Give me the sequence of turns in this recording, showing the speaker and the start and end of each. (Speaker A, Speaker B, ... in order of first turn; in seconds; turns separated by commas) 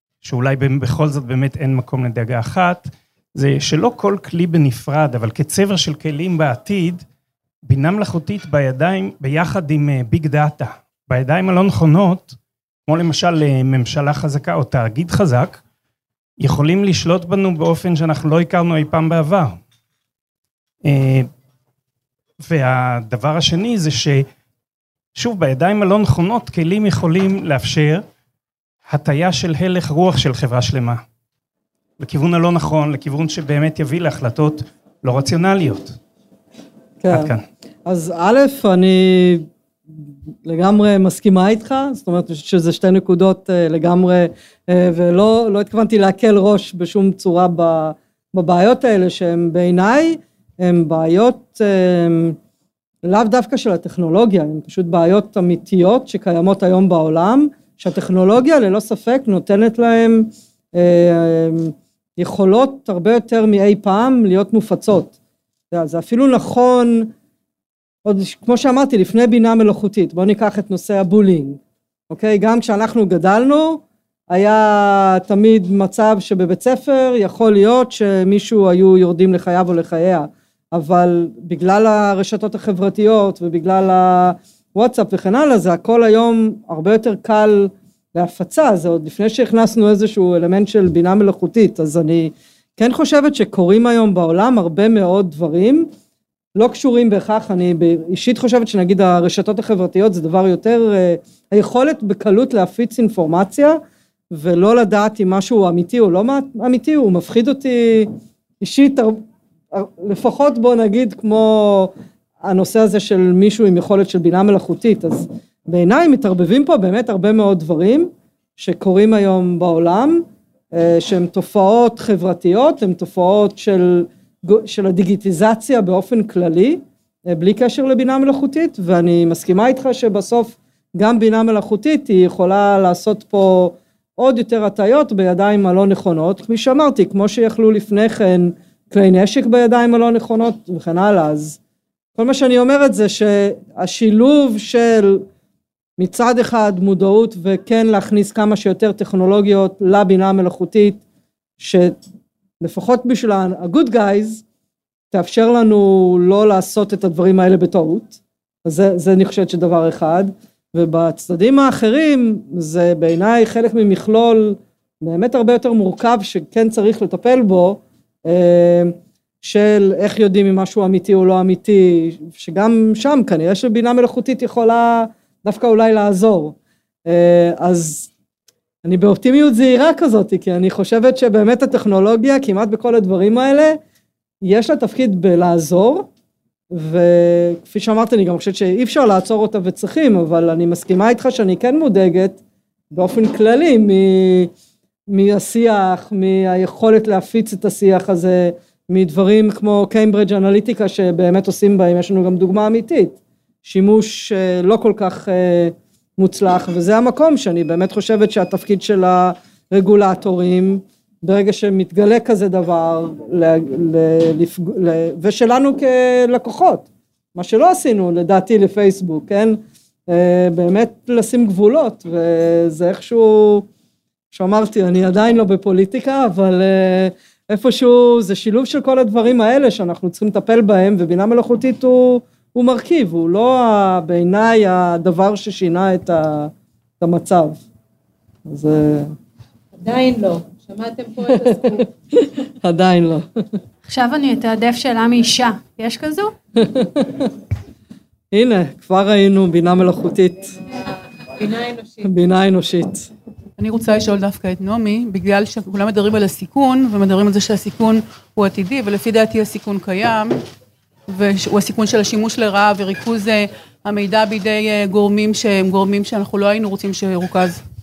Speaker A: 0.2-7.0, Speaker A: 7.7-15.6, Speaker A: 16.4-19.6, Speaker A: 20.8-21.3, Speaker A: 22.4-24.3, Speaker A: 25.1-28.1, Speaker A: 28.9-31.0, Speaker A: 32.0-36.0, Speaker B: 37.0-37.3, Speaker A: 37.1-37.4, Speaker B: 37.9-39.5, Speaker B: 40.5-52.4, Speaker B: 53.0-65.1, Speaker B: 65.7-67.1, Speaker B: 68.0-71.6, Speaker B: 72.1-95.9, Speaker B: 96.6-103.8, Speaker B: 104.3-109.2, Speaker B: 109.7-111.9, Speaker B: 112.4-141.6, Speaker B: 142.2-145.2, Speaker B: 146.0-151.0, Speaker B: 151.6-151.9, Speaker B: 152.6-154.4, Speaker B: 155.1-176.6, Speaker B: 177.1-178.1, Speaker B: 178.8-183.8, Speaker B: 184.4-186.1, Speaker B: 186.7-192.4, Speaker B: 192.9-194.5, Speaker B: 195.1-223.7, Speaker B: 224.3-237.6, Speaker B: 238.5-239.1, Speaker C: 239.8-241.9, Speaker B: 241.3-243.3, Speaker D: 243.9-246.3, Speaker B: 246.6-247.3, Speaker B: 248.3-250.6, Speaker C: 251.4-252.1, Speaker B: 252.0-253.1, Speaker E: 253.6-260.4, Speaker E: 261.1-267.6